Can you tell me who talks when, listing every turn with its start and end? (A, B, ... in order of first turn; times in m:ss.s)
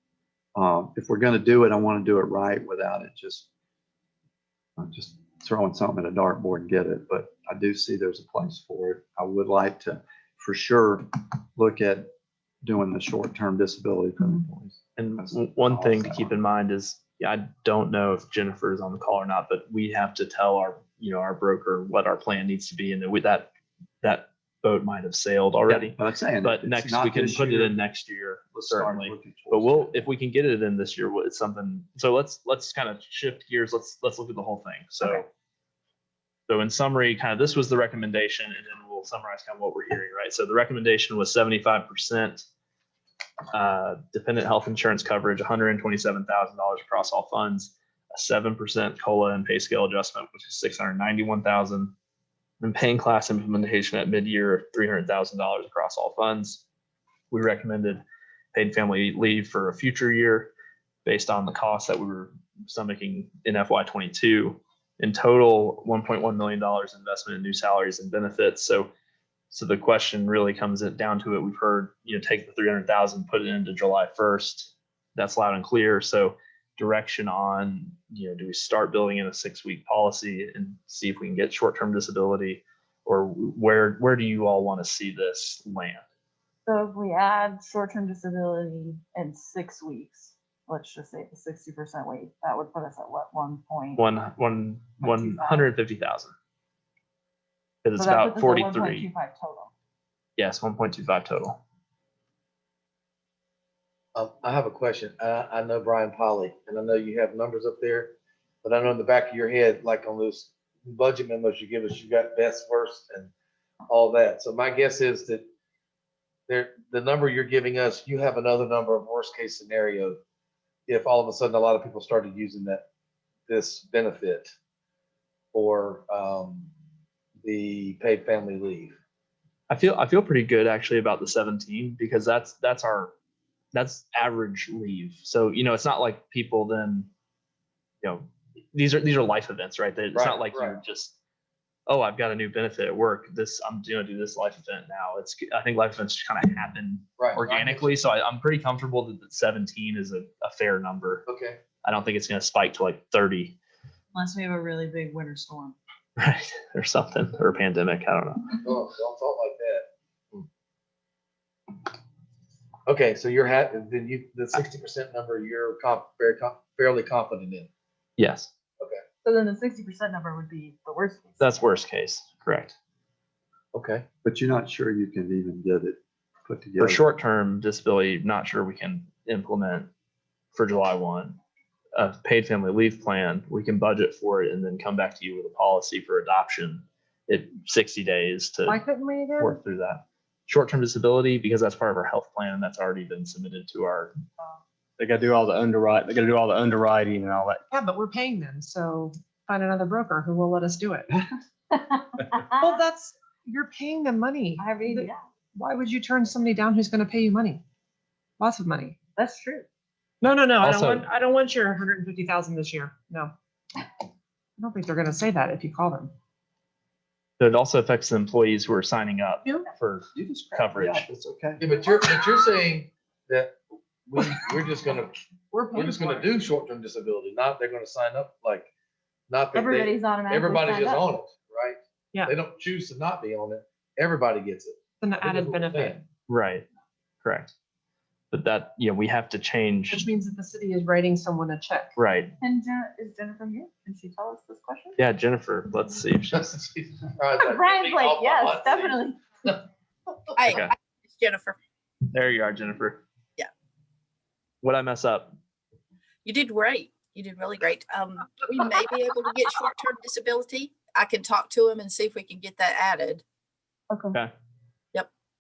0:00.6-0:03.5 A
0:04.8-0:12.1 A
0:12.6-0:16.3 A
0:15.0-0:23.5 B
0:24.0-0:35.3 B
0:25.8-0:27.7 A
0:28.6-0:30.1 A
0:36.5-0:42.5 B
0:43.5-0:51.9 B
0:52.6-0:56.6 B
0:57.3-1:00.5 B
1:01.0-1:08.9 B
1:09.5-1:26.0 B
1:26.7-1:34.0 C
1:34.0-1:36.3 B
1:35.0-1:35.7 C
1:37.8-1:39.1 B
1:38.0-1:39.7 C
1:40.4-1:41.6 B
1:44.2-1:53.3 D
1:53.9-1:55.4 D
1:56.5-2:00.2 D
2:00.9-2:02.8 D
2:03.5-2:04.5 D
2:05.5-2:06.7 D
2:07.4-2:09.0 D
2:09.7-2:13.1 B
2:13.7-2:17.1 B
2:18.0-2:21.2 B
2:20.1-2:20.8 D
2:21.9-2:31.2 B
2:27.2-2:27.9 D
2:31.3-2:31.6 D
2:31.8-2:33.6 B
2:34.1-2:35.8 C
2:36.2-2:38.5 B
2:38.6-2:40.4 D
2:42.9-2:47.7 D
2:48.2-2:48.5 B
2:49.2-2:51.6 C
2:51.4-2:52.8 B
2:53.7-2:54.0 D
2:54.2-2:57.0 A
2:56.8-2:59.9 B
3:00.5-3:01.4 B
3:02.0-3:08.8 B
3:08.7-3:09.6 E
3:09.4-3:14.2 B
3:15.0-3:17.6 F
3:17.7-3:21.1 E
3:21.7-3:22.8 C
3:22.6-3:27.6 E
3:24.6-3:25.2 C
3:28.4-3:29.0 E
3:29.2-3:29.6 C
3:30.2-3:33.3 E
3:30.6-3:31.1 B
3:34.6-3:36.1 E
3:37.4-3:41.1 B
3:40.1-3:41.6 A
3:41.6-3:45.1 D
3:45.5-3:46.3 E
3:45.7-3:48.7 D
3:49.3-3:56.0 D
3:49.5-3:51.1 C
3:55.0-3:56.0 E
3:56.3-3:56.7 B
3:57.2-3:57.5 B
3:58.3-4:00.1 B
3:59.9-4:01.9 E
4:02.0-4:02.3 B
4:02.4-4:05.0 C
4:05.0-4:06.5 B
4:06.3-4:09.0 D
4:07.4-4:09.2 C
4:10.4-4:11.6 G
4:12.1-4:13.0 B
4:14.6-4:15.4 B
4:16.2-4:23.2 G
4:23.9-4:24.2 C